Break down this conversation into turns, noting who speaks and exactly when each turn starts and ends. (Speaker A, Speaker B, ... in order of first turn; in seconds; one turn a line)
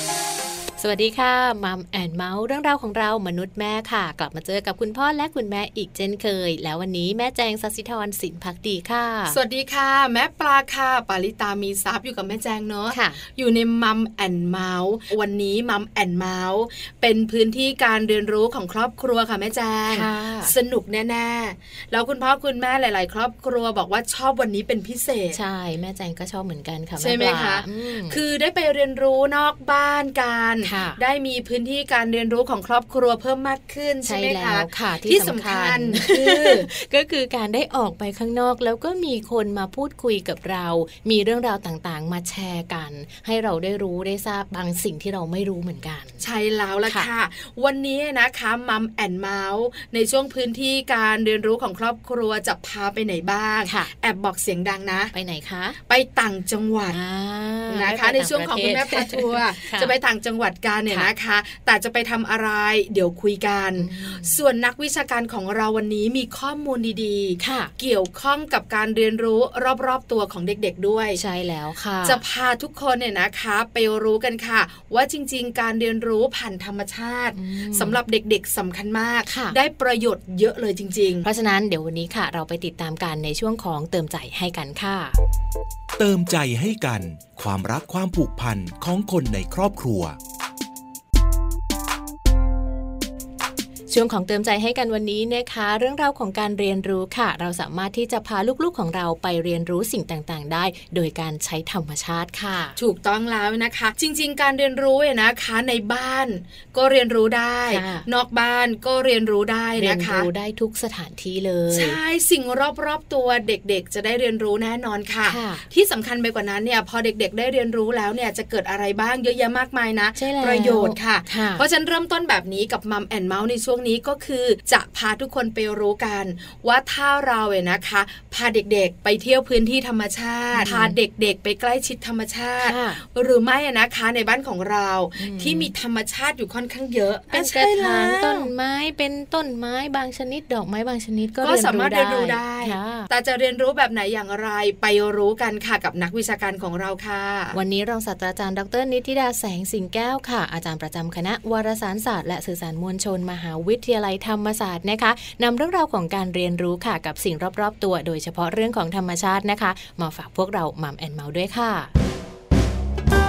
Speaker A: 0.8-9.4
Speaker B: 9.3-25.4
Speaker A: 12.9-13.2
Speaker A: 19.9-20.5
Speaker A: 25.3-28.2
Speaker B: 27.0-36.7
Speaker A: 30.6-31.0
Speaker A: 34.0-46.2
Speaker B: 46.2-55.1
Speaker A: 53.6-53.9
Speaker A: 55.1-55.8
Speaker B: 55.9-57.0
Speaker A: 56.9-59.9
Speaker B: 57.7-71.2
Speaker A: 63.8-64.4
Speaker A: 67.4-67.7
Speaker A: 71.2-72.2
Speaker B: 72.0-81.2
Speaker A: 77.3-78.0
Speaker A: 79.3-79.5
Speaker A: 81.2-85.2
Speaker C: 86.0-90.2
Speaker A: 93.9-102.8
Speaker B: 102.8-110.3
Speaker A: 107.7-108.0
Speaker A: 109.8-112.0
Speaker B: 111.7-138.5
Speaker A: 115.3-115.7
Speaker A: 120.2-121.6
Speaker A: 130.5-130.9
Speaker A: 132.6-133.0
Speaker A: 135.2-135.7
Speaker A: 137.3-143.1
Speaker B: 141.4-147.6
Speaker A: 147.5-161.9